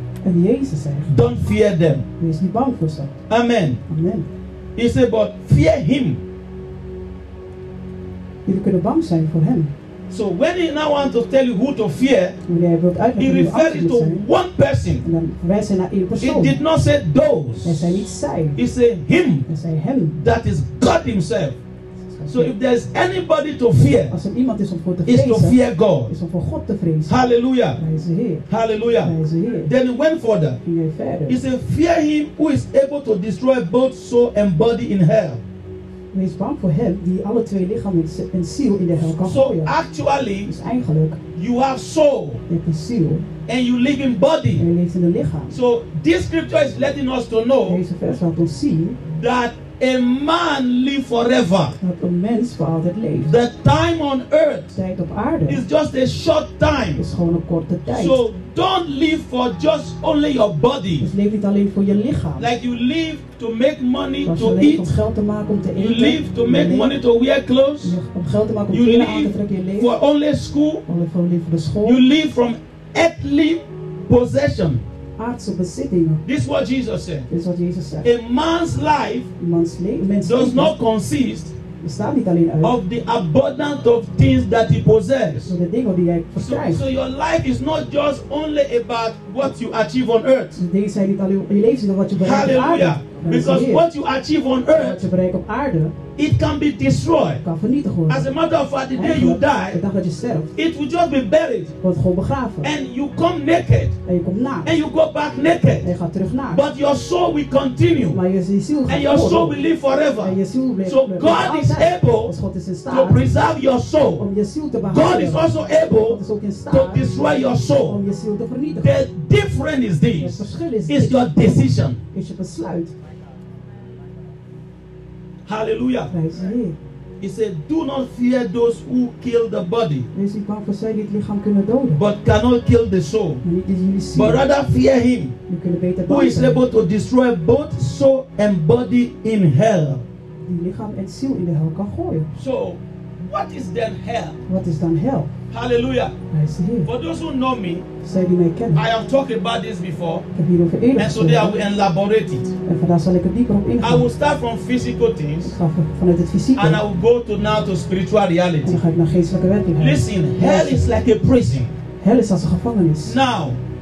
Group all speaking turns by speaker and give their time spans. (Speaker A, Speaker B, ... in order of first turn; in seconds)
Speaker A: 0.2-1.1, 2.2-3.1, 3.9-4.3, 8.4-9.7, 12.5-14.2, 15.0-16.6, 17.6-18.6, 19.5-20.1, 22.1-22.5, 24.1-27.1, 27.8-28.4, 29.0-29.7, 30.6-31.4, 36.1-39.7, 40.4-41.2, 42.5-43.2, 44.5-45.5, 47.6-49.0, 51.8-53.3, 54.8-55.6, 57.0-58.2, 61.0-62.5, 64.2-66.9, 67.8-69.9, 70.9-72.0, 75.2-76.2, 77.3-78.1, 79.4-80.7, 81.8-82.8, 85.5-86.8, 90.5-93.8, 94.7-96.0, 97.4-98.3, 98.9-100.5, 101.8-102.7, 104.0-104.8, 105.8-106.6, 108.1-109.6, 110.2-113.2, 114.2-118.9, 120.2-122.9, 126.1-126.8, 130.1-132.0, 133.4-134.4, 135.5-136.6, 140.4-142.3, 144.5-145.3, 146.3-146.9, 148.0-148.8, 150.3-151.6, 152.7-154.1, 155.4-156.8, 158.6-160.9, 162.0-163.2
Speaker B: 1.1-2.1, 3.3-3.8, 4.8-6.2, 10.1-12.4, 13.2-15.0, 16.2-19.5, 20.1-21.6, 22.3-24.2, 25.1-26.1, 27.1-27.8, 28.5-29.1, 29.7-30.6, 31.3-35.4, 39.1-40.5, 41.4-42.4, 43.5-44.6, 45.5-47.8, 49.0-51.7, 53.2-54.8, 55.5-57.0, 57.9-61.1, 62.4-64.8, 65.8-68.0, 68.7-70.8, 71.8-74.8, 76.2-77.3, 78.0-79.3, 80.2-81.5, 82.6-85.5, 86.3-90.6, 92.2-95.0, 96.2-97.4, 98.1-99.8, 100.5-101.8, 102.6-104.0, 104.6-105.9, 106.5-108.2, 108.9-112.3, 112.9-114.2, 114.8-118.0, 118.8-122.0, 125.5-126.1, 127.2-130.1, 131.9-133.4, 134.1-135.4, 136.1-140.1, 142.3-144.4, 145.5-146.2, 146.8-147.8, 148.7-150.2, 151.0-152.5, 153.8-155.5, 156.6-158.8, 159.8-161.7, 163.0-163.6